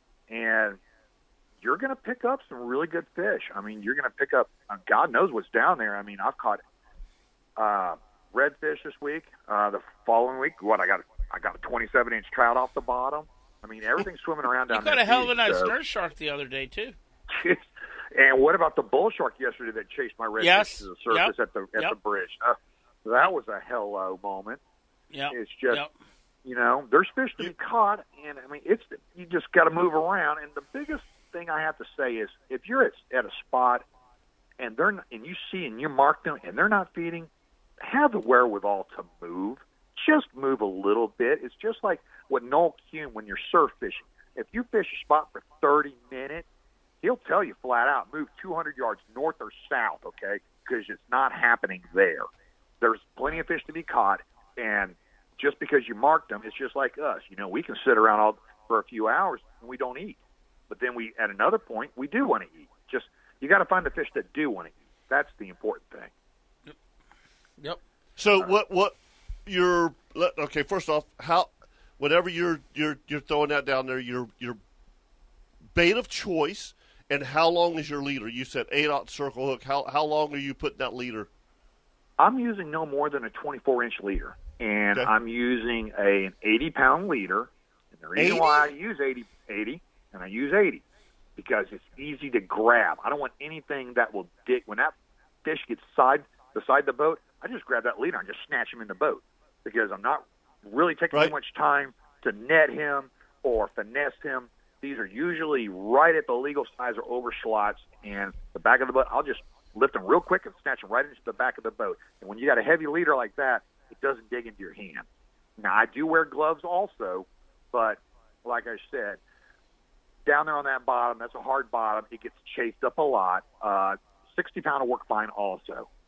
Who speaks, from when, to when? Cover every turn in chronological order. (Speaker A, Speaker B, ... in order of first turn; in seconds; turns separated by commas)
Speaker A: 0.3-0.8, Speaker A: 1.6-6.6, Speaker A: 7.6-15.7, Speaker B: 14.7-17.0, Speaker A: 17.3-24.6, Speaker B: 20.4-22.0, Speaker B: 25.1-25.9, Speaker A: 25.3-25.8, Speaker A: 26.4-33.9, Speaker A: 34.6-37.3, Speaker A: 37.8-46.5, Speaker A: 47.0-52.3, Speaker A: 52.8-60.2, Speaker A: 60.7-66.1, Speaker C: 68.2-69.0, Speaker C: 69.5-74.6, Speaker C: 75.7-81.3, Speaker A: 82.2-90.8, Speaker C: 88.2-88.7, Speaker A: 91.4-115.1, Speaker A: 115.6-119.2, Speaker A: 120.3-125.9